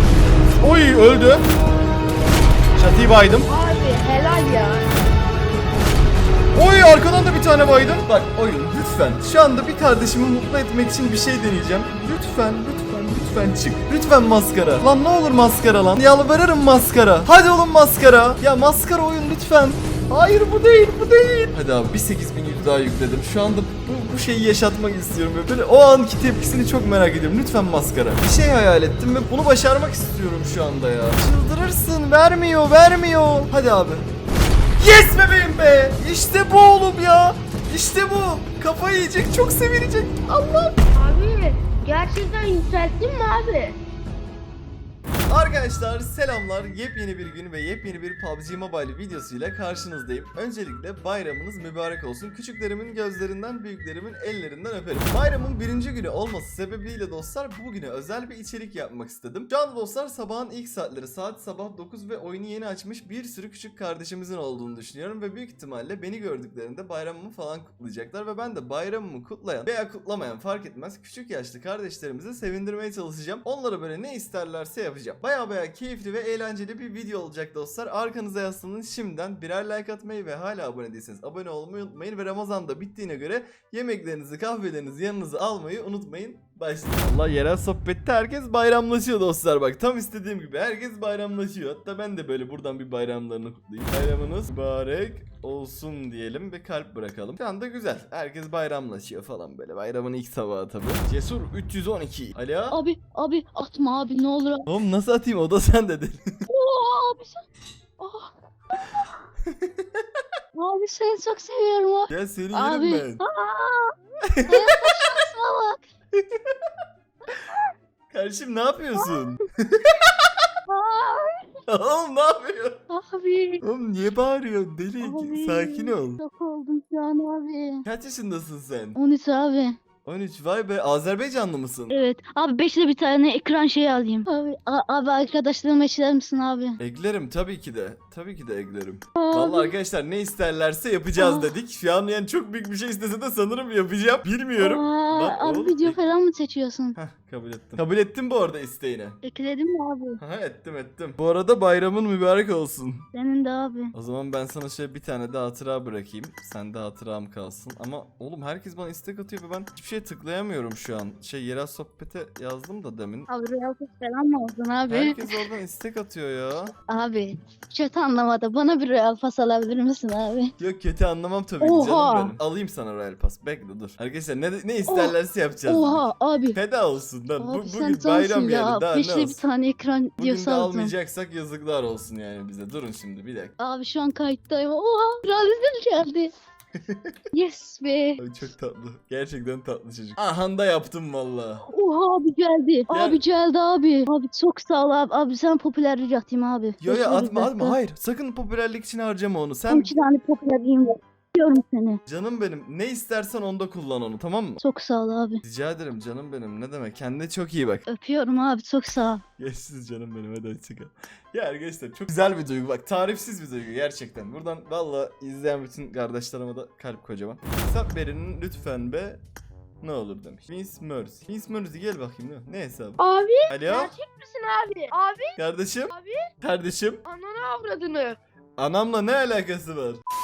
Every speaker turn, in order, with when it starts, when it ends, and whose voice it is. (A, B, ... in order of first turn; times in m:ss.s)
0:00.6-0:01.4 A
0:02.8-0:03.5 A
0:03.5-0:04.9 B
0:06.5-0:34.1 A
0:34.8-0:40.8 A
0:40.9-0:43.8 B
0:45.3-1:42.8 A
1:42.7-1:44.7 C
1:44.6-1:46.4 A
1:46.5-1:47.4 C
1:48.0-1:49.2 C
1:49.4-1:50.0 A
1:50.5-1:53.9 C
1:52.1-1:53.2 A
1:54.3-1:55.2 A
1:54.5-1:55.8 C
1:56.1-1:56.6 A
1:57.4-1:57.7 C
1:58.1-2:00.3 A
1:59.0-1:59.3 C
2:00.7-2:01.5 C
2:01.7-2:02.8 A
2:02.9-2:03.6 C
2:03.6-2:06.2 A
2:05.0-2:07.8 C
2:07.8-2:09.0 A
2:09.0-2:09.8 C
2:10.0-2:11.9 A
2:11.9-2:16.8 C
2:16.8-2:26.0 A
2:19.2-2:19.7 C
2:21.2-2:21.5 C
2:24.6-2:27.0 C
2:27.0-2:29.2 A
2:29.2-2:30.2 C
2:30.2-2:33.0 A
2:33.1-2:33.9 C
2:33.9-2:43.3 A
2:43.3-2:45.5 C
2:44.9-2:46.7 A
2:46.9-2:50.5 C
2:50.6-2:59.4 A
2:51.6-2:52.3 C
2:54.8-2:55.1 C
2:55.7-2:56.6 C
2:57.4-3:00.9 C
3:00.2-3:03.5 A
3:03.6-3:06.3 C
3:06.8-3:07.2 A
3:07.3-3:08.2 C
3:08.2-3:11.6 A
3:11.7-3:17.8 C
3:12.9-3:13.2 A
3:16.8-3:19.9 A
3:19.7-3:22.0 C
3:22.1-3:24.6 A
3:24.6-3:25.4 C
3:25.4-3:27.8 A
3:27.8-3:29.2 C
3:29.4-3:39.2 A
3:39.8-3:43.9 A
3:43.0-3:45.4 B
3:45.4-3:47.0 A
3:45.9-3:46.3 B
3:47.0-3:48.2 B
3:48.6-3:50.0 A